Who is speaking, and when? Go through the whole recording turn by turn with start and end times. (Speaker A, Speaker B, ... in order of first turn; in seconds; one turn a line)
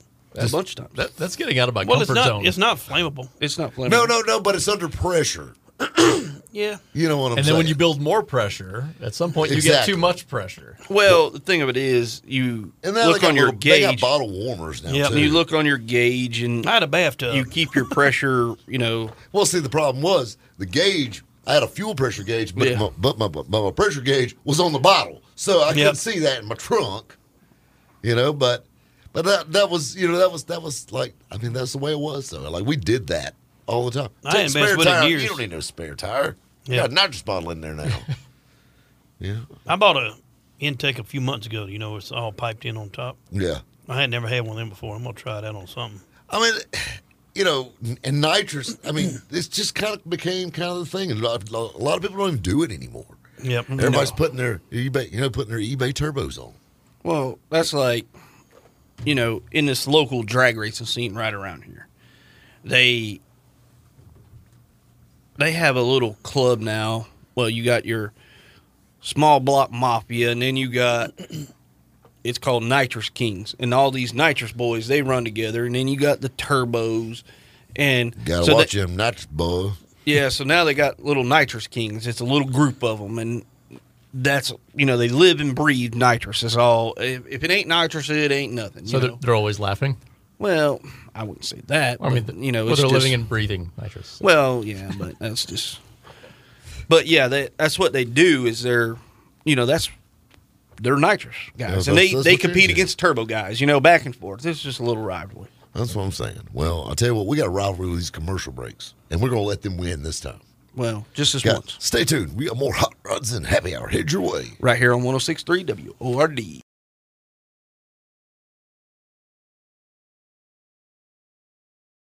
Speaker A: 0.3-1.0
Speaker B: 0.3-2.6
Speaker C: 1.8-3.3
Speaker A: 3.4-4.1
Speaker D: 3.9-6.3
Speaker C: 6.5-6.8
Speaker D: 6.9-7.8
Speaker B: 7.3-10.8
Speaker D: 9.4-10.2
Speaker A: 10.9-14.1
Speaker D: 12.8-15.4
Speaker C: 14.9-15.2
Speaker A: 15.0-16.7
Speaker C: 16.6-17.9
Speaker A: 17.3-19.1
Speaker D: 19.3-27.2
Speaker A: 22.6-22.9
Speaker C: 25.7-26.0
Speaker D: 28.0-38.1
Speaker C: 34.2-35.4
Speaker D: 39.2-39.5
Speaker C: 39.7-43.2
Speaker D: 43.3-43.6
Speaker C: 43.9-46.0
Speaker D: 46.3-53.2
Speaker C: 53.4-54.0
Speaker A: 53.7-54.1
Speaker D: 53.7-56.6
Speaker A: 57.0-58.1
Speaker A: 59.0-61.9
Speaker A: 62.6-63.2
Speaker A: 65.4-68.1
Speaker A: 69.0-71.1
Speaker A: 72.2-77.2
Speaker A: 77.8-78.7
Speaker D: 78.2-79.8
Speaker A: 80.0-83.5
Speaker A: 84.1-89.2
Speaker B: 88.8-90.0
Speaker A: 90.4-93.2
Speaker B: 92.0-94.3
Speaker A: 94.2-95.8
Speaker A: 96.9-99.9
Speaker A: 100.8-105.5
Speaker D: 101.7-102.9
Speaker D: 105.7-110.4
Speaker A: 110.7-111.8
Speaker D: 111.4-114.6
Speaker A: 114.6-116.6